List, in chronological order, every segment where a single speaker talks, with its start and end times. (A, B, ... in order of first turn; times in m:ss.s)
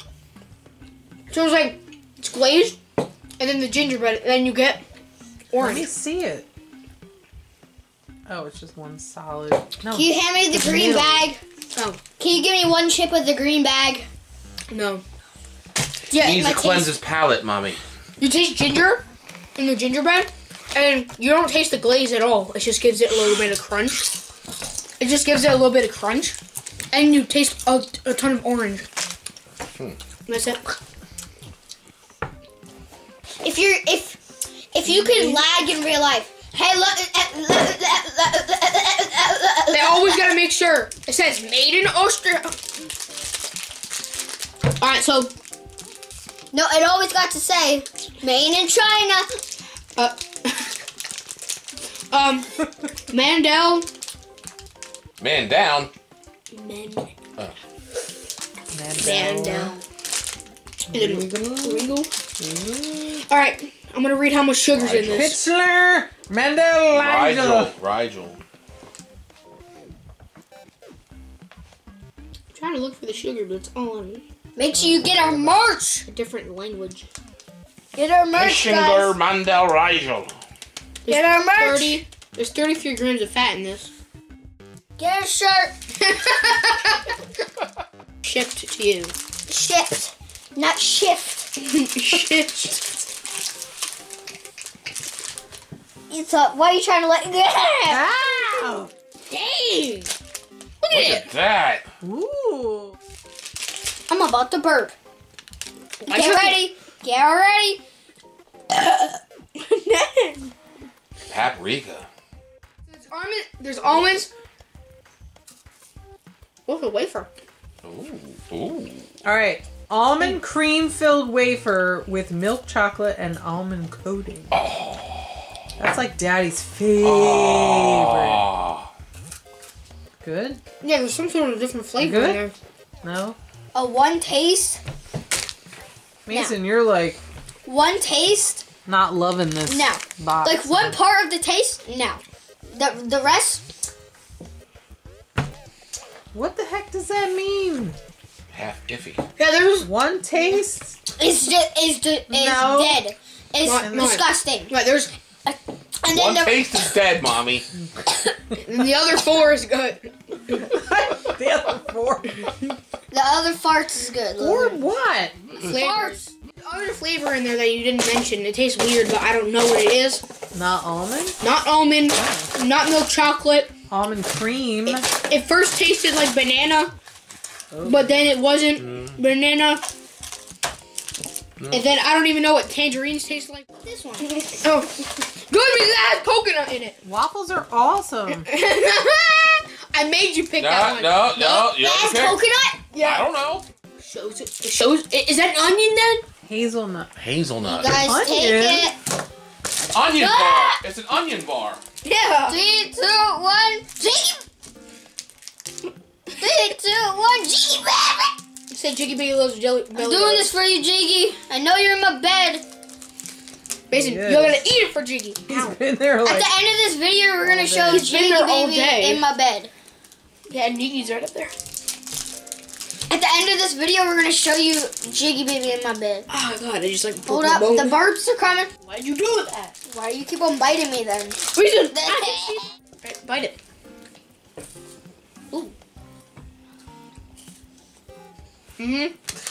0:01.3-0:02.8 A
0:03.4-0:04.8 A
0:05.5-0:05.9 A
0:05.6-0:06.5 B
0:08.3-0:11.3 B
0:09.9-0:11.4 C
0:12.2-0:14.1 C
0:14.7-0:15.0 A
0:16.1-0:17.8 D
0:16.2-0:16.9 C
0:18.2-0:19.0 A
0:19.6-0:24.0 A
0:25.0-0:26.4 A
0:26.9-0:28.9 A
0:30.3-0:30.8 A
0:33.4-0:34.2 C
0:34.7-0:40.3 C
0:34.9-0:35.4 A
0:39.7-0:42.6 A
0:44.8-0:45.3 A
0:46.5-0:49.3 C
0:50.0-0:50.7 A
0:52.1-0:53.9 A
0:55.2-0:55.9 D
0:56.5-0:57.2 A
0:58.7-0:59.8 B
0:59.0-0:59.8 A
1:00.9-1:01.9 B
1:00.9-1:02.1 A
1:02.4-1:03.2 B
1:03.2-1:05.4 A
1:04.7-1:05.4 D
1:05.1-1:07.7 B
1:06.9-1:08.4 D
1:12.5-1:14.2 A
1:14.6-1:16.1 C
1:14.8-1:15.6 B
1:16.1-1:17.1 A
1:18.0-1:19.2 C
1:18.3-1:20.4 D
1:21.0-1:23.9 A
1:21.1-1:22.0 C
1:25.0-1:25.7 C
1:26.0-1:27.0 A
1:28.2-1:29.1 A
1:29.5-1:31.5 C
1:31.7-1:32.8 A
1:36.1-1:38.0 C
1:37.9-1:38.9 B
1:39.3-1:40.1 A
1:40.8-1:41.3 A
1:40.9-1:41.8 D
1:42.0-1:43.0 B
1:44.1-1:45.0 C
1:46.0-1:46.6 A
1:46.1-1:47.8 C
1:48.7-1:50.5 A
1:51.3-1:52.1 D
1:52.9-1:54.3 A
1:56.7-1:57.3 A
1:57.8-1:59.1 D
1:59.2-2:04.6 B
2:04.5-2:05.4 D
2:05.8-2:08.5 B
2:07.0-2:08.9 D
2:10.2-2:10.6 B
2:10.8-2:12.6 A
2:12.0-2:12.5 B
2:13.0-2:13.4 B
2:13.7-2:14.8 C
2:16.3-2:17.2 B
2:17.6-2:18.6 C
2:18.9-2:20.9 B
2:19.7-2:23.6 C
2:26.3-2:28.0 B
2:28.5-2:29.2 D
2:29.4-2:29.9 A
2:29.8-2:31.0 B
2:31.2-2:34.7 C
2:32.3-2:33.0 B
2:33.6-2:35.1 A
2:35.5-2:36.9 C
2:36.1-2:37.7 D
2:38.6-2:40.7 A
2:40.5-2:42.6 B
2:43.1-2:44.8 C
2:44.4-2:45.4 B
2:45.6-2:50.2 A
2:45.7-2:46.2 C
2:50.5-2:51.4 B
2:51.4-2:53.7 A
2:52.1-2:52.5 B
2:53.9-2:55.1 B
2:55.0-2:56.9 A
2:57.7-2:58.2 B
2:57.8-2:59.8 A
2:58.8-2:59.2 D
3:01.7-3:03.7 A
3:03.8-3:04.6 C
3:04.4-3:07.0 A
3:07.0-3:08.5 B
3:08.5-3:11.4 A
3:10.6-3:12.4 D
3:11.4-3:12.8 C
3:12.9-3:13.3 A
3:13.0-3:13.7 D
3:14.0-3:16.2 A
3:16.4-3:17.1 B
3:17.2-3:18.0 D
3:17.7-3:19.0 C
3:17.8-3:18.9 B
3:19.9-3:21.8 D
3:20.1-3:20.8 C
3:22.0-3:22.6 A
3:22.5-3:24.4 C
3:26.4-3:28.3 C
3:28.7-3:30.5 A
3:30.0-3:32.6 C
3:33.9-3:35.8 A
3:33.9-3:34.6 B
3:35.5-3:36.6 B
3:36.2-3:39.7 C
3:37.4-3:38.0 B
3:37.9-3:39.2 A
3:40.5-3:41.5 A
3:43.1-3:46.3 C
3:46.3-3:48.0 A
3:47.3-3:48.7 C
3:48.9-3:49.8 A
3:49.9-3:52.6 C
3:51.5-3:53.6 A
3:58.8-3:59.1 A